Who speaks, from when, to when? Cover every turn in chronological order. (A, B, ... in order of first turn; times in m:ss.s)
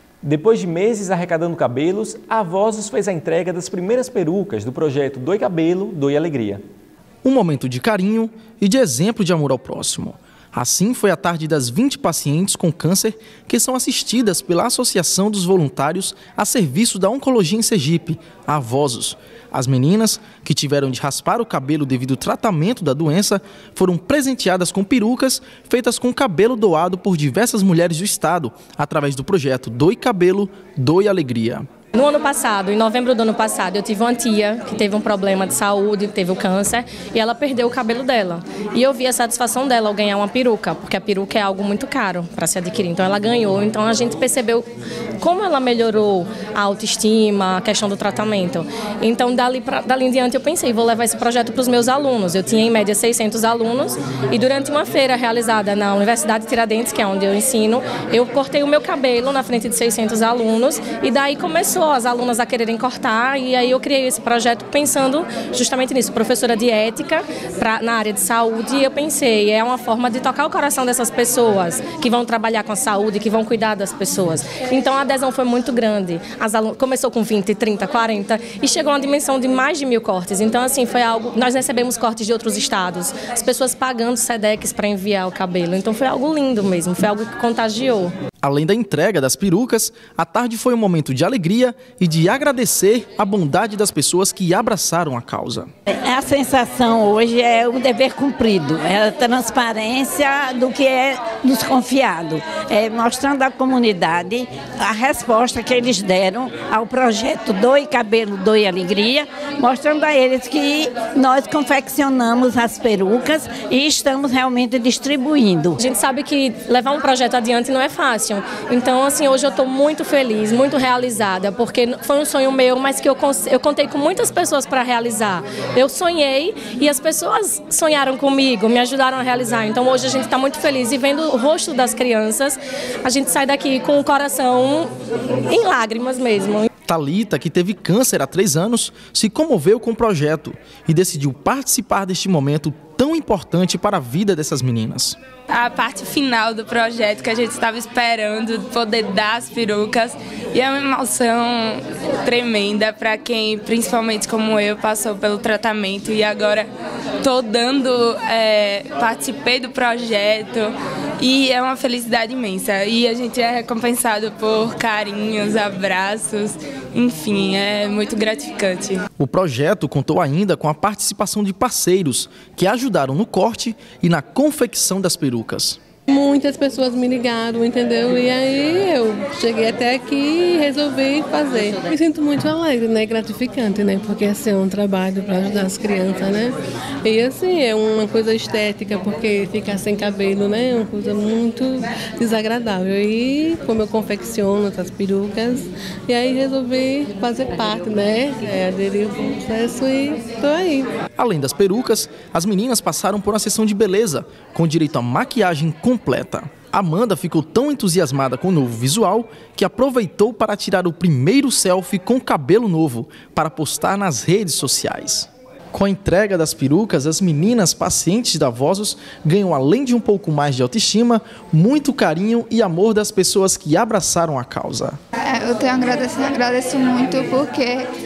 0:00.2-0:06.6 A
0:07.2-0:31.6 B
0:31.9-0:44.7 C
0:45.2-1:28.1 C
1:28.4-1:35.7 B
1:36.0-1:55.8 D
1:55.8-2:14.9 C
2:15.4-2:16.7 C
2:16.9-2:25.2 B
2:25.6-2:36.7 E
2:37.2-2:49.0 E
2:49.2-2:55.8 B
2:56.1-3:20.9 F
3:21.2-3:45.0 B
3:45.2-3:47.9 G